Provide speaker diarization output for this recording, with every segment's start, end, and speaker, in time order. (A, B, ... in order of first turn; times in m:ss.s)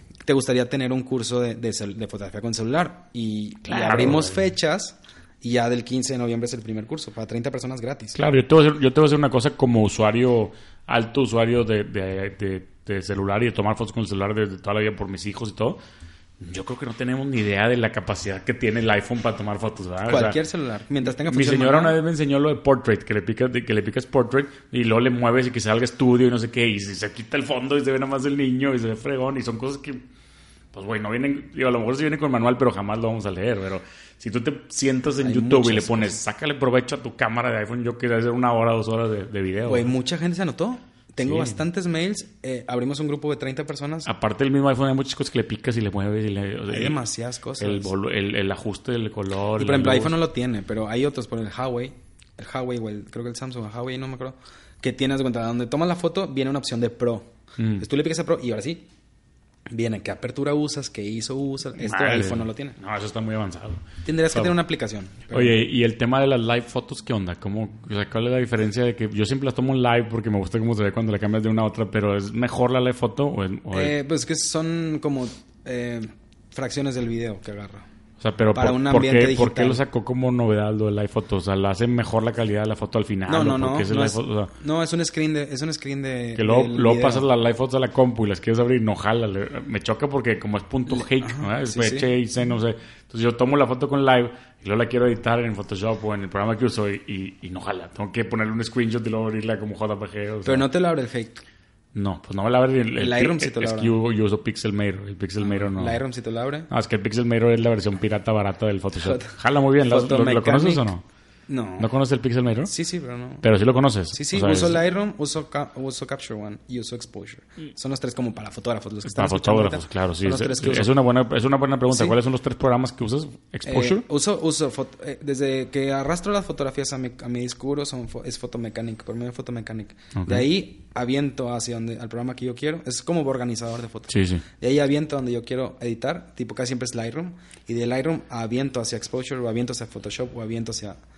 0:00.2-0:08.2 A
0:03.6-0:04.4 B
0:08.1-0:15.8 B
0:16.4-0:20.4 B
0:20.1-0:22.0 A
0:21.2-0:30.1 B
0:30.7-0:39.9 B
0:35.2-0:36.2 A
0:39.6-0:44.1 A
0:41.2-0:41.6 B
0:44.0-0:47.0 B
0:46.7-0:47.9 A
0:47.6-0:50.2 B
0:49.6-0:58.9 A
0:57.6-0:57.8 B
0:59.7-1:02.8 A
1:01.8-1:04.6 B
1:04.0-1:05.6 A
1:05.3-1:14.0 B
1:13.7-1:17.9 A
1:18.2-1:24.5 B
1:18.5-1:19.8 A
1:23.3-1:27.3 A
1:26.4-1:40.7 B
1:30.9-1:32.1 A
1:40.4-1:41.4 A
1:42.0-1:46.0 B
1:43.0-1:44.0 A
1:45.4-1:46.7 A
1:46.7-1:51.0 B
1:49.0-1:50.9 A
1:51.5-1:51.9 A
1:51.8-1:52.7 B
1:52.7-1:53.5 A
1:53.4-1:54.8 B
1:54.1-2:01.0 A
1:59.0-2:04.0 B
2:01.9-2:02.2 A
2:03.7-2:21.0 A
2:10.1-2:10.5 B
2:14.1-2:14.4 B